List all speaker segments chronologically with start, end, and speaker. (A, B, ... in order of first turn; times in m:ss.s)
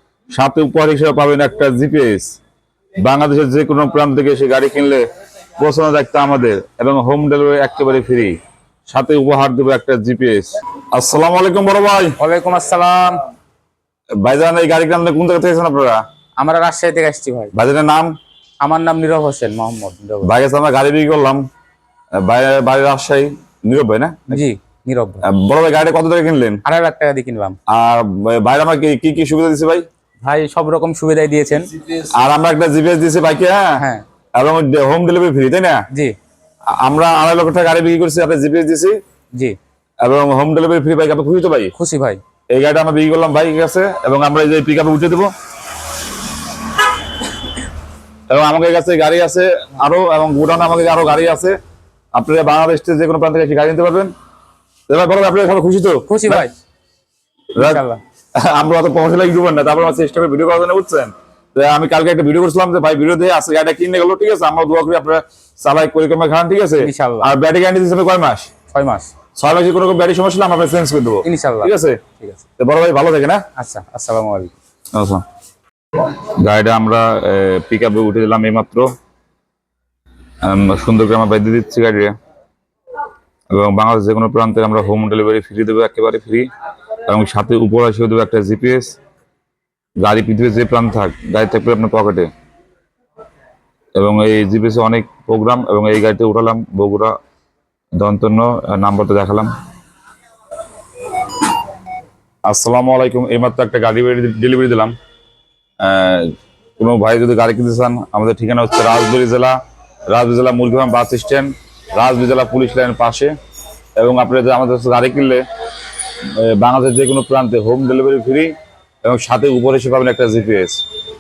0:00.3-0:02.3 A
0:03.0-0:05.0 A
0:05.6-0:12.2 A
0:12.2-0:13.2 B
0:14.2-0:16.0 A
0:16.4-0:17.5 B
0:17.5-0:18.1 A
0:18.6-0:20.3 B
0:20.2-0:21.4 A
0:22.1-0:24.4 A
0:24.3-0:25.2 B
0:25.2-0:26.6 A
0:26.6-0:27.6 B
0:27.7-0:29.8 A
0:30.2-0:31.7 B
0:32.0-0:33.8 A
0:33.8-0:34.0 B
0:34.4-0:35.8 A
0:36.8-0:39.0 A
0:40.0-0:41.7 A
0:41.8-0:42.2 B
0:42.5-0:45.3 A
0:48.3-0:51.6 A
0:52.1-0:54.1 A
0:54.9-0:56.4 A
0:56.1-0:56.5 B
0:57.6-0:57.8 A
0:57.6-0:58.0 B
0:58.4-1:08.5 A
1:06.8-1:07.3 B
1:08.7-1:09.1 B
1:09.3-1:12.0 A
1:11.2-1:12.4 B
1:12.6-1:13.4 A
1:13.6-1:14.5 B
1:14.9-1:15.2 A
1:16.1-1:18.9 A
1:20.4-1:22.1 A
1:23.5-1:26.5 A
1:27.0-1:28.9 A
1:30.0-1:32.3 A
1:34.0-1:37.1 A
1:38.0-1:39.5 A
1:42.4-1:44.9 A
1:45.8-1:49.6 A
1:50.1-1:53.3 A
1:54.0-1:55.4 A
1:56.3-1:58.5 A
1:59.0-2:00.8 A